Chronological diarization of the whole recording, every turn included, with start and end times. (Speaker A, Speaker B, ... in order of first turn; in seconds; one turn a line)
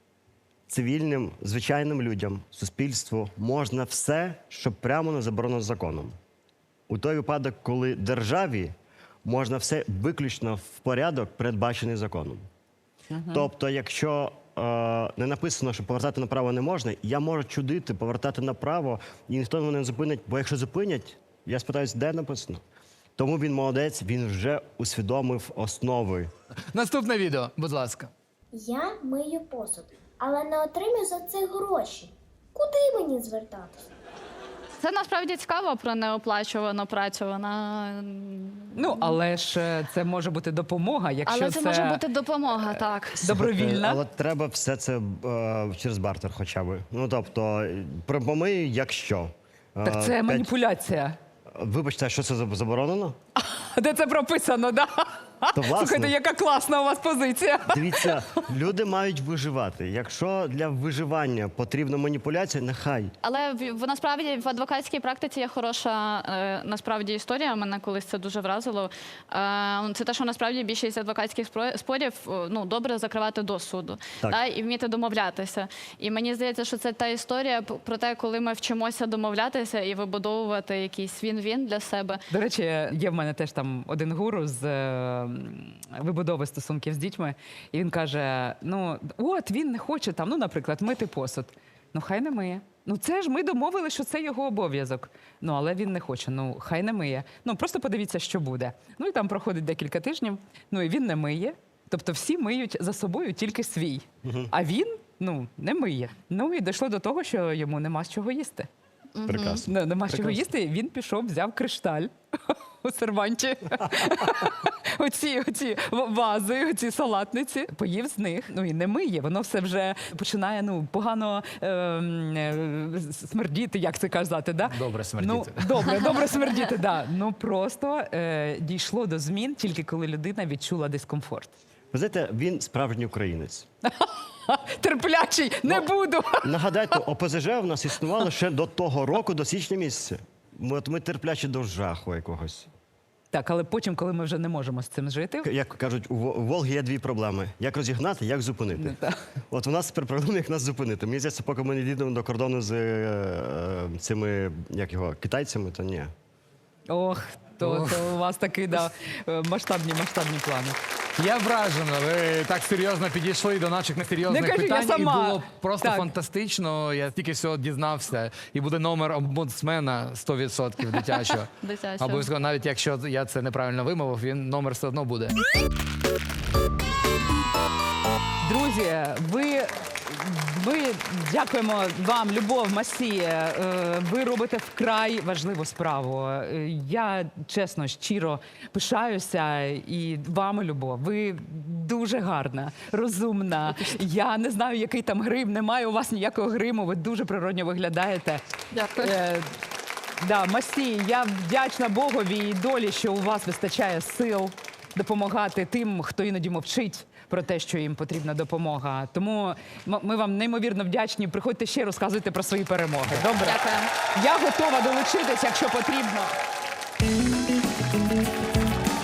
Speaker A: 0.7-6.1
Speaker A: 6.9-8.7
Speaker A: 9.2-12.4
Speaker B: 13.1-13.5
Speaker A: 13.3-22.6
Speaker A: 23.2-26.3
Speaker C: 26.7-28.1
Speaker D: 28.5-33.9
Speaker E: 34.8-39.2
Speaker B: 38.8-42.0
Speaker E: 41.3-43.3
Speaker B: 43.2-44.0
Speaker A: 43.3-50.5
Speaker B: 49.8-51.2
Speaker A: 51.5-53.2
Speaker B: 53.4-58.4
Speaker A: 55.5-56.1
Speaker A: 57.7-63.1
Speaker E: 63.2-82.2
Speaker B: 82.3-108.7
Speaker A: 104.2-104.5
Speaker E: 109.2-109.6
Speaker A: 109.3-110.5
Speaker B: 109.7-131.6
Speaker C: 124.7-126.0
Speaker A: 131.9-133.7
Speaker B: 133.9-136.5
Speaker A: 135.7-135.9
Speaker A: 136.4-142.7
Speaker B: 143.3-145.5
Speaker A: 145.4-149.0
Speaker B: 148.8-149.2
Speaker A: 149.5-156.1
Speaker B: 156.9-160.8
Speaker C: 157.6-158.0
Speaker C: 161.2-175.4
Speaker B: 164.3-166.2
Speaker E: 171.6-172.3
Speaker B: 178.4-198.4
Speaker E: 198.7-199.1
Speaker B: 199.0-199.5
Speaker B: 200.2-216.4
Speaker E: 213.4-213.9